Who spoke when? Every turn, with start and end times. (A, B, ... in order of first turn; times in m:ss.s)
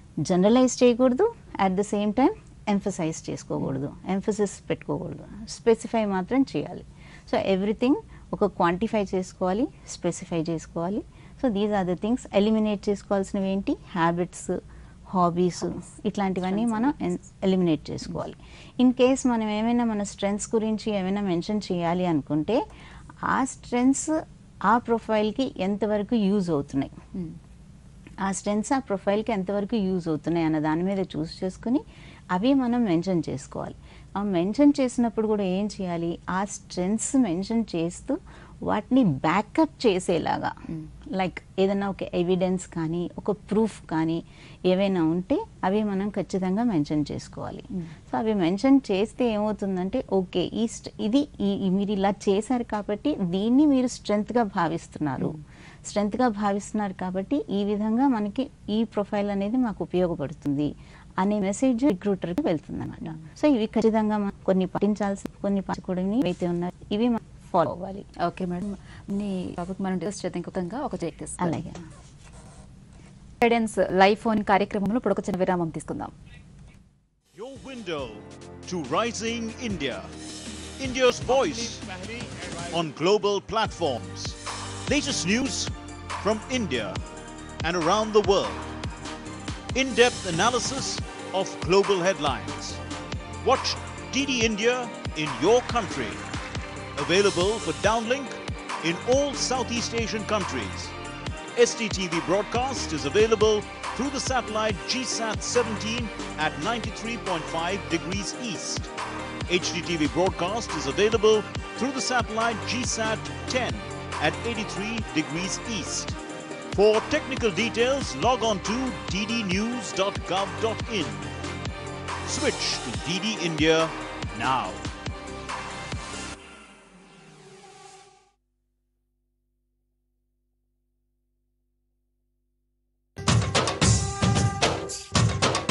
0:00.3-0:14.6 A
0:15.1-0:22.6 A
0:16.5-0:17.2 B
0:23.3-0:24.1 A
0:24.7-0:27.0 A
0:28.2-0:31.8 A
0:32.3-0:40.5 A
0:41.2-1:08.1 A
1:08.2-1:11.6 B
1:11.4-1:11.8 A
1:13.4-1:16.1 B
1:17.4-1:20.1 C
1:20.8-1:27.0 C
1:27.6-1:28.7 C
1:29.8-1:32.8 C
1:33.4-1:36.2 C
1:37.0-1:40.9 C
1:41.6-1:48.9 C
1:49.5-1:56.2 C
1:56.7-2:01.2 C
2:02.2-2:04.8 C